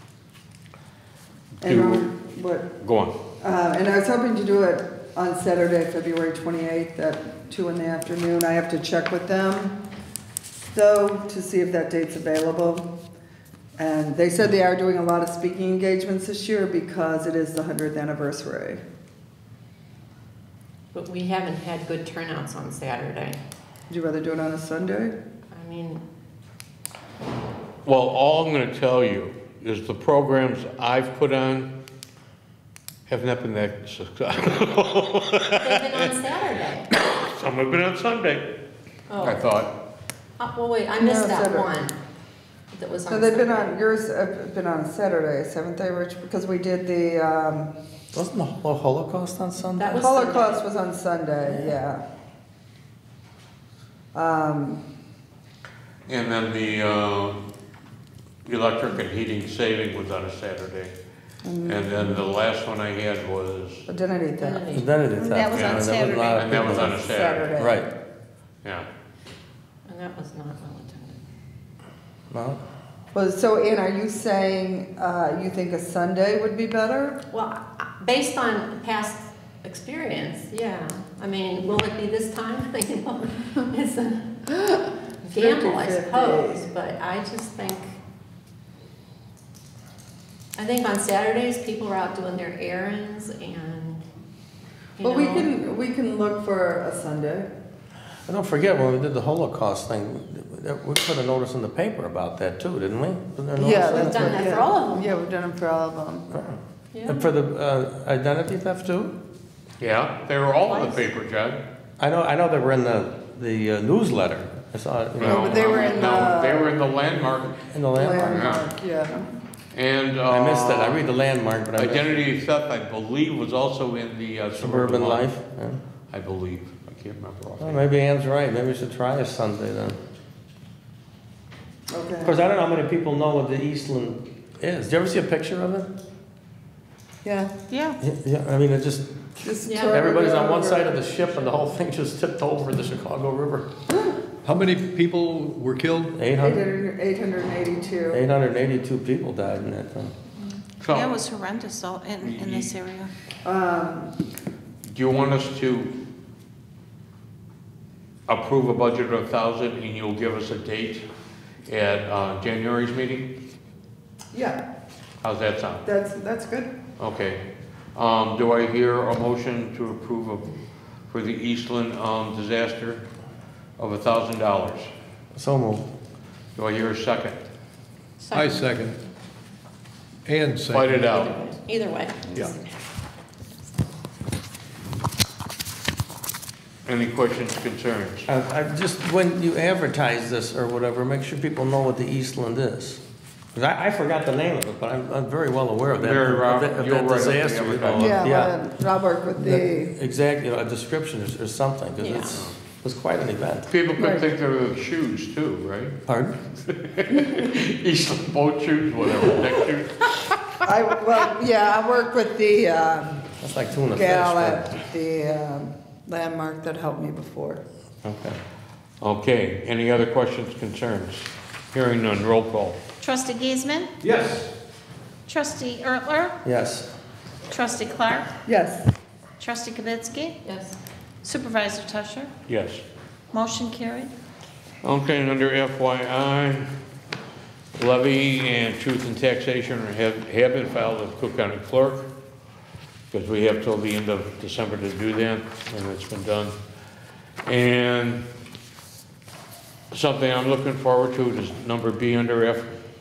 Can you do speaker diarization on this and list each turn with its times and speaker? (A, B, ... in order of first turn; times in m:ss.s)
0:01.6-0:02.1 A
0:01.6-0:02.7 B
0:02.8-0:03.2 A
0:03.4-0:09.8 B
0:10.7-0:12.9 B
0:13.8-0:18.8 B
0:20.9-0:23.4 C
0:23.9-0:25.2 B
0:25.5-0:26.0 C
0:27.8-0:31.7 A
0:33.1-0:36.1 A
0:35.6-0:36.9 C
0:36.9-0:38.6 A
0:39.1-0:39.6 C
0:39.2-0:39.7 A
0:40.4-0:42.0 C
0:41.0-0:41.7 B
0:42.7-0:43.8 C
0:43.1-0:47.7 B
0:48.1-0:50.0 D
0:49.8-0:50.6 C
0:50.0-0:52.0 B
0:54.1-0:54.8 B
0:56.1-0:57.4 A
0:58.4-1:00.9 A
1:01.4-1:02.2 B
1:01.6-1:03.8 A
1:03.9-1:07.9 B
1:04.4-1:04.9 C
1:04.7-1:07.9 D
1:05.2-1:06.9 E
1:05.5-1:07.5 A
1:09.8-1:11.2 C
1:12.3-1:12.6 D
1:13.1-1:17.2 B
1:17.3-1:24.4 C
1:24.6-1:26.6 B
1:25.2-1:28.0 C
1:30.6-1:34.1 C
1:35.0-1:35.5 C
1:35.0-1:37.5 B
1:38.3-1:44.5 D
1:43.6-1:46.3 B
1:43.6-1:45.1 C
1:46.3-1:49.1 D
1:46.9-1:47.3 C
1:49.8-1:51.6 A
1:52.0-1:56.1 D
1:55.2-1:56.8 B
1:55.2-1:58.7 A
1:55.5-1:56.3 C
1:57.7-1:58.6 D
1:57.9-1:59.3 B
1:59.7-2:01.1 A
2:00.3-2:02.3 D
2:01.8-2:05.3 A
2:04.6-2:05.8 D
2:06.1-2:07.8 A
2:07.6-2:10.0 D
2:11.9-2:12.4 B
2:12.2-2:15.9 D
2:17.2-2:17.5 B
2:17.7-2:18.0 E
2:18.0-2:23.7 D
2:19.4-2:20.9 B
2:19.6-2:20.1 C
2:21.0-2:21.6 C
2:24.4-2:26.2 F
2:26.1-2:26.6 D
2:26.4-2:28.2 B
2:28.1-2:30.1 D
2:30.8-2:31.1 A
2:30.8-2:33.1 E
2:32.2-2:32.7 A
2:33.4-2:34.1 B
2:34.8-2:36.0 A
2:38.3-2:41.0 A
2:41.7-2:43.3 A
2:44.3-2:44.6 B
2:45.2-2:45.9 A
2:45.8-2:46.7 B
2:47.0-2:50.6 A
2:51.1-2:53.1 A
2:53.8-2:54.9 A
2:55.3-2:55.9 D
2:56.6-2:57.5 A
2:58.2-2:58.7 C
2:58.3-2:59.0 F
3:00.2-3:01.3 F
3:00.7-3:01.3 A
3:01.0-3:02.8 C
3:03.6-3:03.8 C
3:06.8-3:08.2 A
3:08.2-3:13.0 D
3:13.5-3:18.6 D
3:16.0-3:18.2 A
3:18.0-3:19.9 B
3:19.4-3:23.7 D
3:22.0-3:22.4 C
3:23.7-3:26.0 A
3:24.0-3:24.2 B
3:26.1-3:26.4 D
3:26.6-3:30.6 A
3:30.6-3:33.3 B
3:33.4-3:34.6 D
3:33.9-3:37.6 B
3:38.0-3:38.4 D
3:39.0-3:42.8 A
3:43.0-3:43.9 E
3:44.0-3:44.5 F
3:45.2-3:46.4 E
3:46.4-3:46.9 D
3:47.5-3:48.3 E
3:48.4-3:48.9 B
3:49.4-3:50.4 E
3:50.4-3:50.8 C
3:51.2-3:52.3 E
3:52.5-3:52.8 A
3:53.3-3:54.1 E
3:54.8-3:56.7 A
3:57.8-4:02.1 A
4:03.1-4:06.5 A
4:07.4-4:08.3 A
4:09.9-4:12.8 A